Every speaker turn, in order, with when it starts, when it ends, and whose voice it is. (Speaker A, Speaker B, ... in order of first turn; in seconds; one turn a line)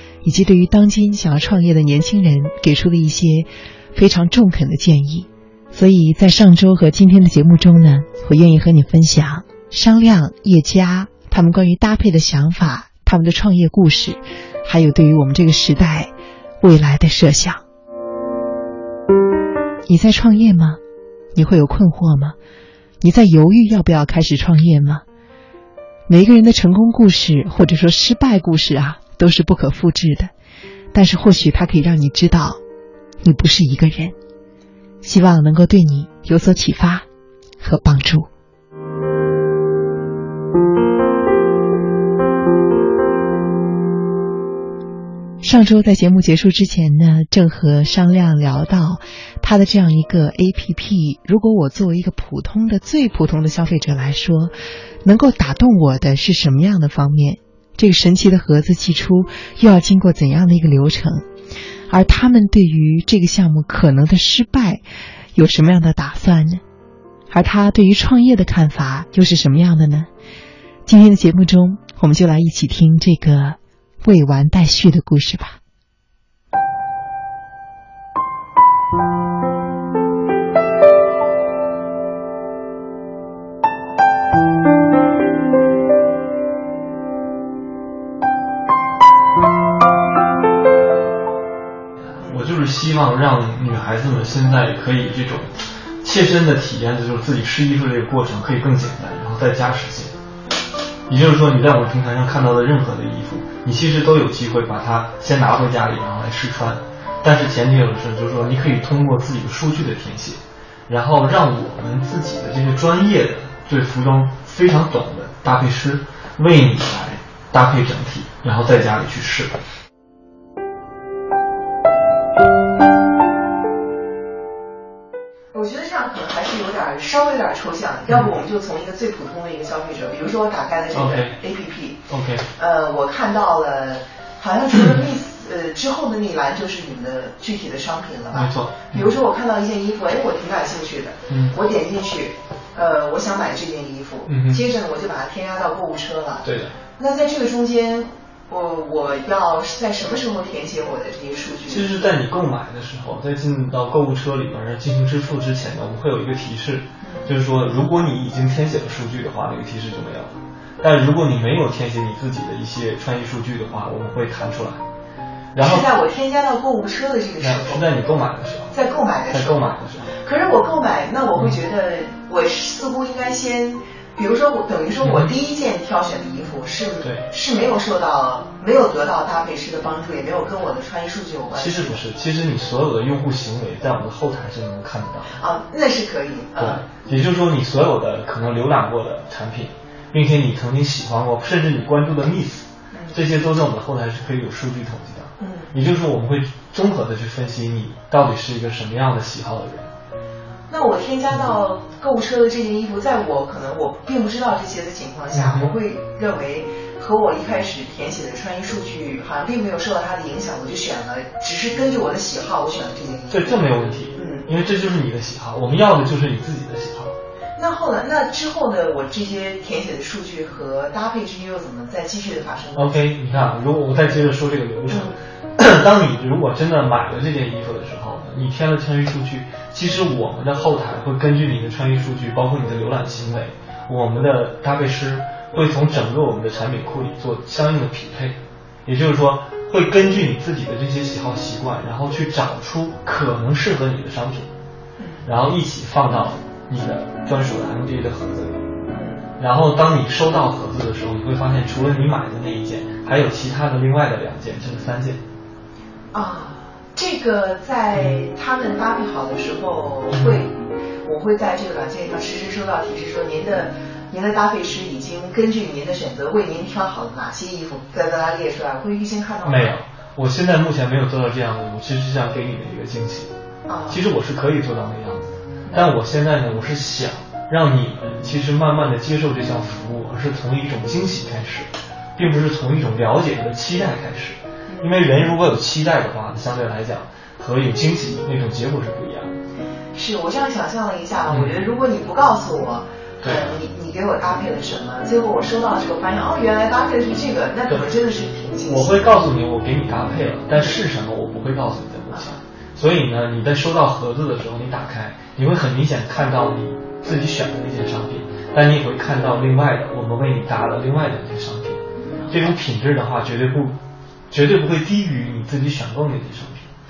Speaker A: 0.2-17.6
Speaker A: 19.9-20.8
Speaker A: 21.3-22.4
Speaker A: 23.0-25.0
Speaker A: 26.1-30.3
Speaker A: 30.9-32.6
Speaker A: 33.2-34.1
Speaker A: 35.0-37.0
Speaker A: 37.6-38.3
Speaker A: 45.4-61.3
Speaker A: 61.9-64.8
Speaker A: 65.3-66.6
Speaker A: 67.3-70.1
Speaker A: 70.8-75.6
Speaker B: 92.2-100.1
Speaker B: 101.1-119.6
Speaker A: 125.5-132.0
Speaker B: 130.9-131.4
Speaker B: 132.1-132.4
Speaker A: 132.6-146.4
Speaker B: 138.3-139.1
Speaker B: 141.3-141.6
Speaker B: 144.3-144.6
Speaker B: 146.4-146.8
Speaker A: 147.0-152.0
Speaker B: 151.7-164.8
Speaker A: 157.0-157.3
Speaker B: 165.5-165.8
Speaker A: 165.6-167.9
Speaker B: 167.4-168.7
Speaker A: 168.7-182.0
Speaker B: 169.3-170.2
Speaker B: 175.0-175.3
Speaker B: 177.0-177.3
Speaker B: 181.5-185.3
Speaker A: 185.3-186.8
Speaker B: 186.6-199.9
Speaker A: 192.9-193.2
Speaker A: 195.4-195.7
Speaker A: 200.7-214.5
Speaker B: 205.3-205.7
Speaker B: 213.3-217.2
Speaker A: 217.6-223.0
Speaker B: 222.7-244.5
Speaker A: 224.9-225.2
Speaker A: 245.0-245.2
Speaker B: 245.2-248.6
Speaker A: 248.9-249.2
Speaker B: 249.4-255.2
Speaker A: 256.1-260.5
Speaker B: 260.1-260.4
Speaker A: 261.0-269.7
Speaker B: 269.4-273.3
Speaker A: 273.7-274.0
Speaker B: 273.9-289.4
Speaker A: 284.7-285.0
Speaker A: 289.9-298.9
Speaker B: 291.3-291.6
Speaker B: 293.2-293.5
Speaker B: 298.6-313.8
Speaker A: 302.1-302.4
Speaker A: 312.1-312.5
Speaker B: 314.3-316.7